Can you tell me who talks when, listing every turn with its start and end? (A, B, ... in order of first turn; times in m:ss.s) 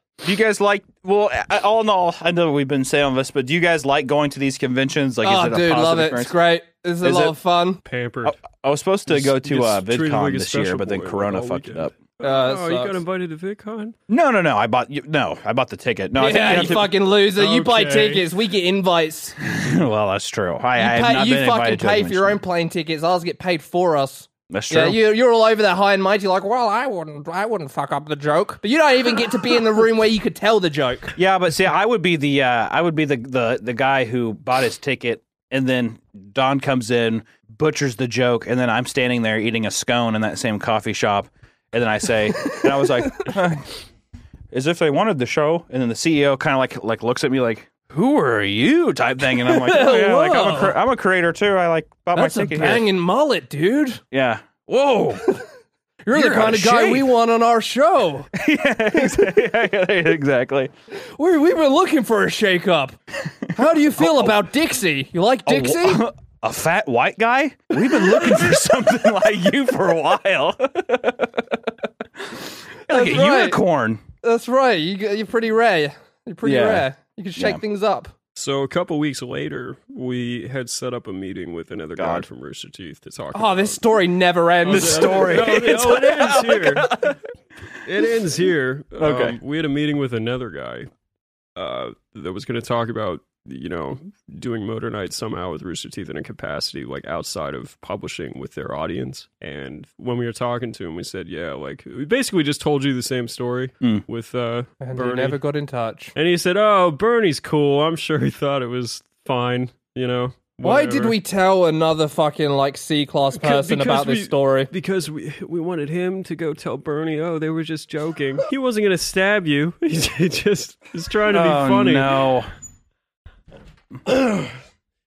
0:00.2-0:06.3 A
0:05.2-0:07.8 B
0:07.0-0:07.3 A
0:07.8-0:08.4 C
0:08.2-0:11.9 A
0:09.1-0:13.9 C
0:12.2-0:13.0 B
0:14.1-0:16.9 A
0:16.2-0:19.3 B
0:16.5-0:18.3 C
0:19.4-0:22.4 A
0:20.8-0:31.2 B
0:24.5-0:25.0 A
0:31.2-0:43.8 A
0:42.5-0:43.3 B
0:44.5-0:52.9 A
0:49.3-0:50.8 B
0:52.1-0:54.0 B
0:54.1-0:55.2 A
0:56.0-0:58.3 B
0:56.1-0:57.1 A
0:58.3-1:00.7 A
1:00.9-1:03.0 B
1:03.5-1:04.4 A
1:03.5-1:06.0 B
1:05.4-1:11.6 A
1:12.3-1:14.0 A
1:12.9-1:13.6 B
1:14.2-1:18.1 B
1:16.4-1:17.6 A
1:18.3-1:23.8 C
1:22.0-1:22.2 A
1:23.3-1:25.6 B
1:24.6-1:27.1 C
1:24.7-1:27.2 A
1:27.8-1:30.9 C
1:29.0-1:29.4 A
1:31.6-1:45.4 C
1:44.8-1:46.1 B
1:46.1-1:51.2 C
1:50.6-1:54.7 B
1:53.3-2:02.3 C
2:01.3-2:02.5 A
2:04.0-2:04.6 C